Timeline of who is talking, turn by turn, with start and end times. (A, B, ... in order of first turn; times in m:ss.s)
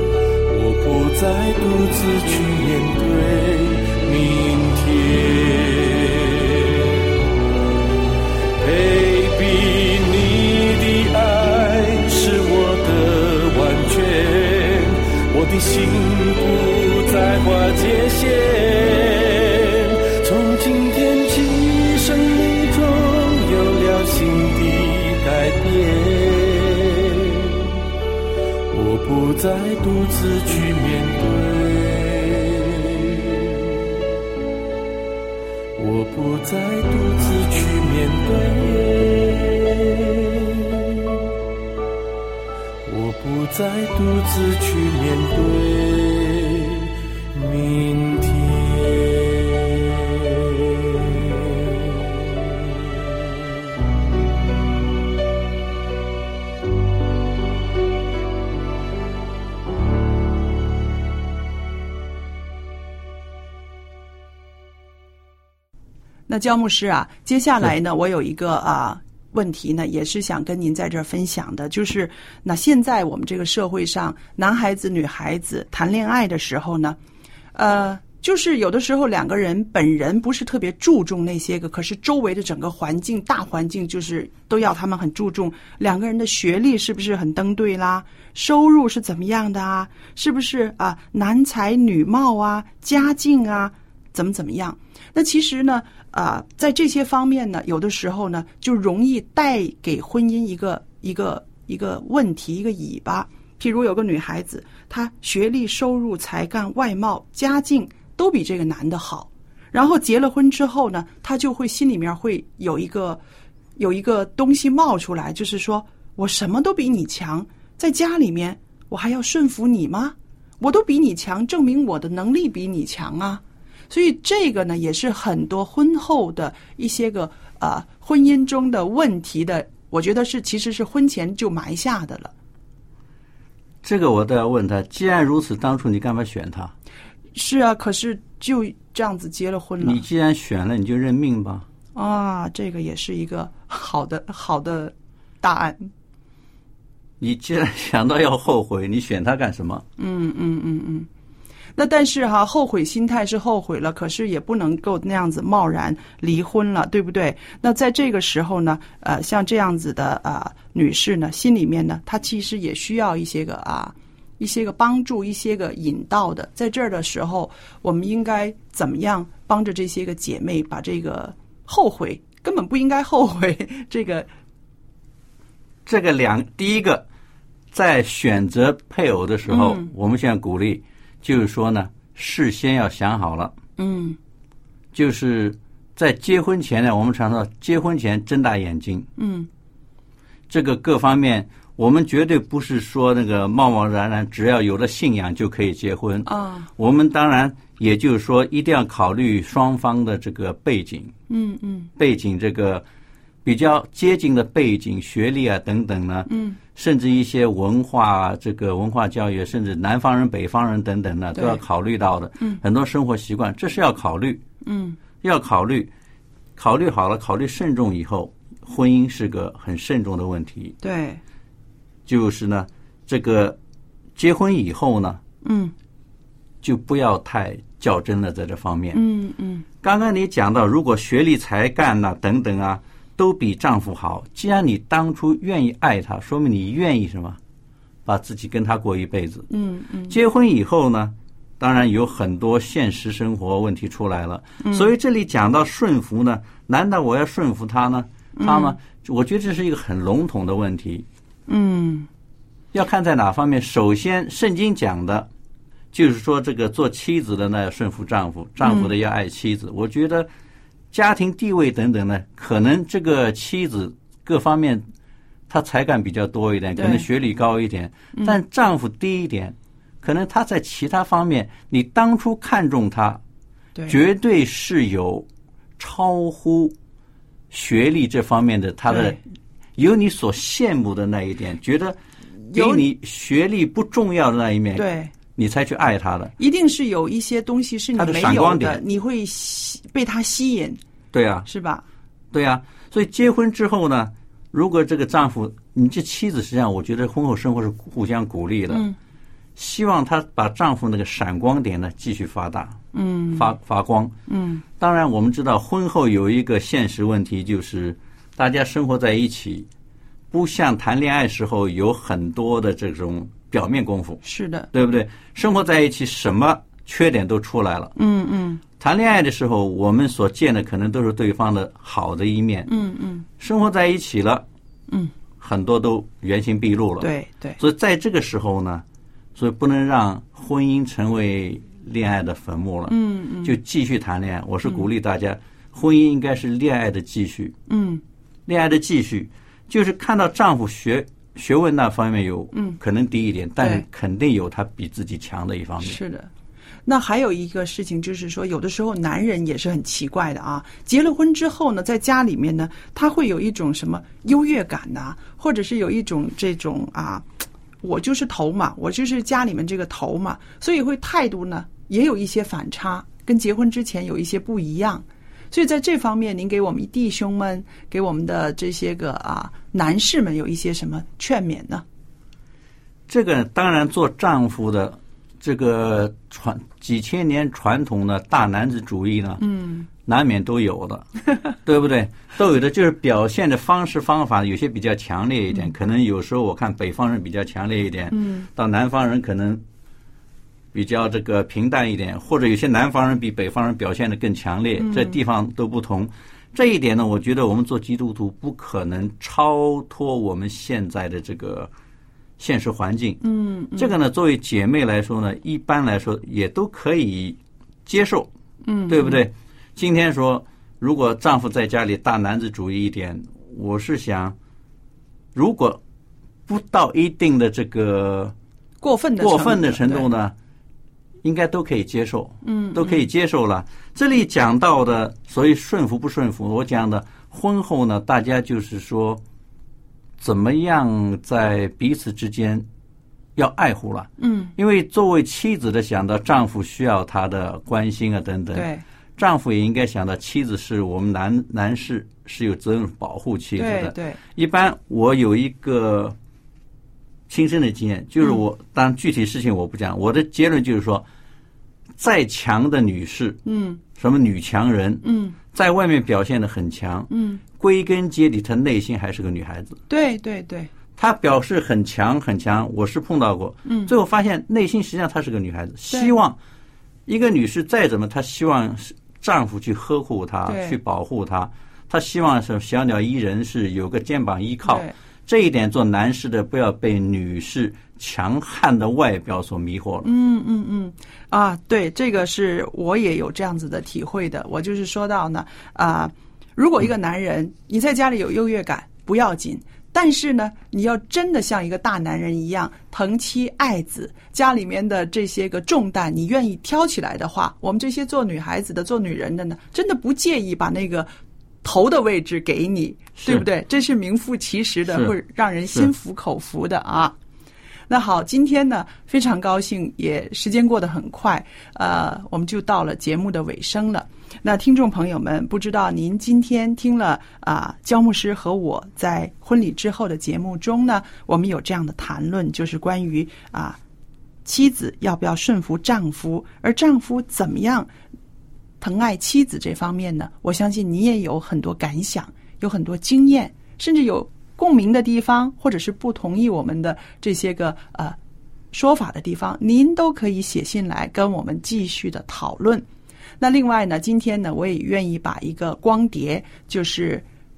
0:00.5-0:07.1 A
0:08.6-0:27.8 A
0:28.7-0:33.9 A
0:35.8-0:41.2 A
0:42.8-0:52.7 A
1:06.3-1:17.0 B
1:17.5-1:53.2 B
1:53.8-2:12.3 B
2:13.8-2:16.7 C
2:17.3-2:20.0 B
2:19.8-2:21.7 C
2:21.9-2:25.9 B
2:27.2-2:29.8 C
2:30.0-2:31.1 B
2:31.8-2:54.3 B
2:55.8-2:57.0 C
2:57.7-3:03.5 C
2:59.5-2:59.9 B
3:03.8-3:04.2 B
3:04.9-3:09.1 C
3:09.2-3:09.5 B
3:10.5-3:21.1 C
3:16.2-3:16.7 B
3:21.3-3:21.9 B
3:22.0-3:22.8 C
3:23.4-3:34.4 C
3:26.3-3:26.6 B
3:31.3-3:31.6 B
3:34.6-3:35.0 B
3:35.2-3:35.9 C
3:36.6-3:40.8 C
3:40.8-3:41.2 B
3:42.0-3:43.6 C
3:44.2-3:45.2 C
3:45.4-3:45.7 B
3:46.6-3:49.0 C
3:48.9-3:49.7 B
3:49.8-3:57.4 C
3:58.0-3:59.5 C
3:59.5-4:00.2 B
4:00.1-4:11.0 C
4:04.6-4:04.9 B
4:08.4-4:08.8 B
4:11.5-4:12.1 B
4:12.7-4:15.3 C
4:15.9-4:20.3 C
4:18.6-4:18.9 B
4:20.9-4:24.8 C
4:25.5-4:33.2 C
4:26.8-4:27.1 B
4:28.1-4:28.4 B
4:33.9-4:35.2 C
4:35.8-4:36.8 C
4:37.5-4:39.2 C
4:38.9-4:39.2 B
4:39.8-4:42.0 C
4:42.5-4:42.9 B
4:42.5-4:46.3 C
4:44.7-4:45.1 B
4:46.4-4:50.8 B
4:48.0-4:48.8 C
4:51.1-4:51.5 C
4:51.4-4:51.8 B
4:52.3-4:58.8 C
4:58.7-4:59.0 B
4:59.6-5:02.8 C
5:02.9-5:03.5 B
5:03.3-5:04.1 C
5:04.3-5:04.6 B
5:04.8-5:09.7 C
5:10.3-5:14.2 C
5:14.2-5:14.7 B
5:14.7-5:17.9 C
5:18.0-5:18.6 B
5:18.8-5:22.7 C
5:22.7-5:23.2 B
5:23.4-5:24.4 C
5:25.4-5:37.5 C
5:27.0-5:27.6 B
5:32.9-5:33.6 B
5:37.7-5:38.0 B
5:38.4-5:46.0 C
5:42.5-5:42.8 B
5:43.6-5:43.8 B
5:45.8-5:46.3 B
5:46.8-5:57.3 B
5:57.8-6:11.8 B
6:13.1-6:19.4 C
6:19.4-6:19.9 B
6:20.0-6:21.1 C
6:21.6-6:29.6 C
6:28.1-6:28.5 B
6:30.7-6:41.7 C
6:34.8-6:35.2 B
6:42.4-6:43.2 C
6:43.2-6:44.0 B
6:43.8-6:48.3 C
6:48.6-6:49.2 B
6:48.9-6:54.4 C
6:55.3-6:55.8 C
6:56.5-6:58.3 C
6:58.8-7:00.1 B
6:59.2-7:00.3 C
7:01.2-7:09.2 C
7:02.4-7:03.0 B
7:10.2-7:12.6 C
7:13.4-7:26.2 C
7:14.2-7:14.5 B
7:18.5-7:18.8 B
7:23.6-7:24.2 B
7:27.3-7:31.0 C
7:32.0-7:33.4 C
7:33.4-7:33.8 B
7:33.9-7:39.8 C
7:35.0-7:35.4 B
7:37.1-7:37.4 B
7:39.9-7:40.7 B
7:41.0-7:46.4 C
7:43.6-7:43.9 B
7:45.9-7:46.2 B
7:47.1-8:00.1 C
7:50.4-7:50.8 B
7:54.6-7:54.9 B
8:00.0-8:21.1 B
8:21.6-8:27.2 B
8:23.2-8:23.4 C
8:24.9-8:25.1 C
8:27.9-8:43.8 B
8:44.4-8:47.9 B
8:48.8-8:58.2 B
8:58.7-9:02.8 B
9:03.4-9:07.2 B